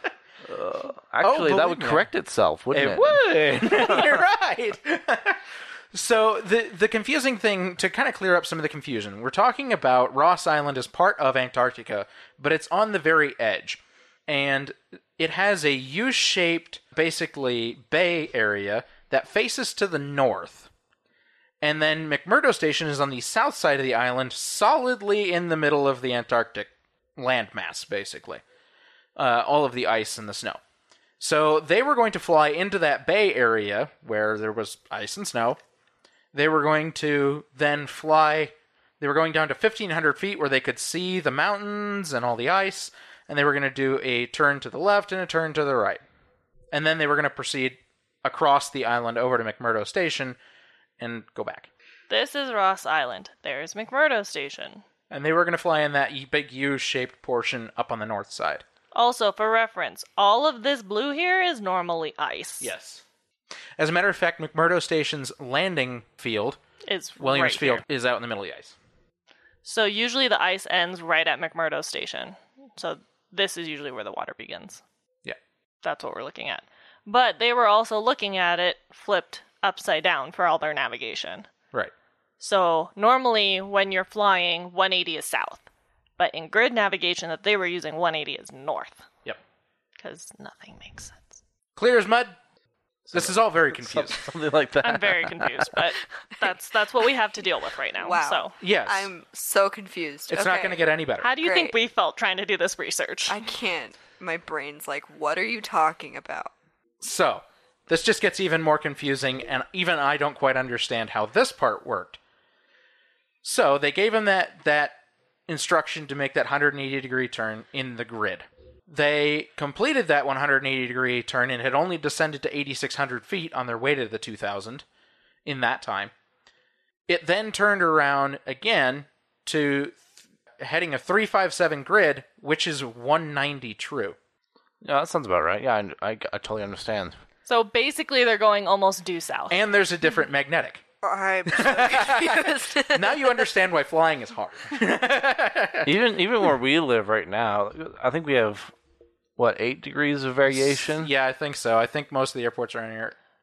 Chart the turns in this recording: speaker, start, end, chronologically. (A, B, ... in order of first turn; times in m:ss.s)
0:00.4-0:04.2 A
0:01.2-0:02.1 B
0:02.7-0:20.7 B
0:21.6-0:28.4 B
0:29.2-0:30.6 B
0:31.2-0:35.6 B
0:36.3-0:46.0 B
0:46.7-0:50.4 B
0:51.0-0:51.7 B
0:52.1-0:54.8 C
0:55.1-0:58.6 B
0:58.9-1:02.7 C
1:02.6-1:03.0 B
1:03.8-1:06.6 B
1:06.8-1:07.8 C
1:07.2-1:08.8 B
1:09.6-1:14.8 C
1:15.8-1:21.5 C
1:22.4-1:25.6 C
1:26.2-1:29.1 C
1:30.0-1:31.4 C
1:31.8-1:32.4 B
1:33.0-1:35.8 A
1:33.1-1:34.3 B
1:34.8-1:38.6 C
1:38.0-1:40.8 D
1:38.6-1:39.1 B
1:40.3-1:41.3 B
1:41.2-1:43.4 C
1:41.4-1:41.7 D
1:43.3-1:46.5 D
1:47.0-1:52.2 B
1:53.4-1:55.0 B
1:55.5-2:04.8 B
2:05.4-2:06.1 B
2:07.1-2:10.1 B
2:10.6-2:14.2 B
2:14.8-2:17.2 A
2:17.4-2:19.6 C
2:19.5-2:20.8 B
2:21.0-2:23.4 D
2:21.5-2:25.9 B
2:25.8-2:28.7 A
2:29.4-2:31.1 A
2:30.5-2:33.1 B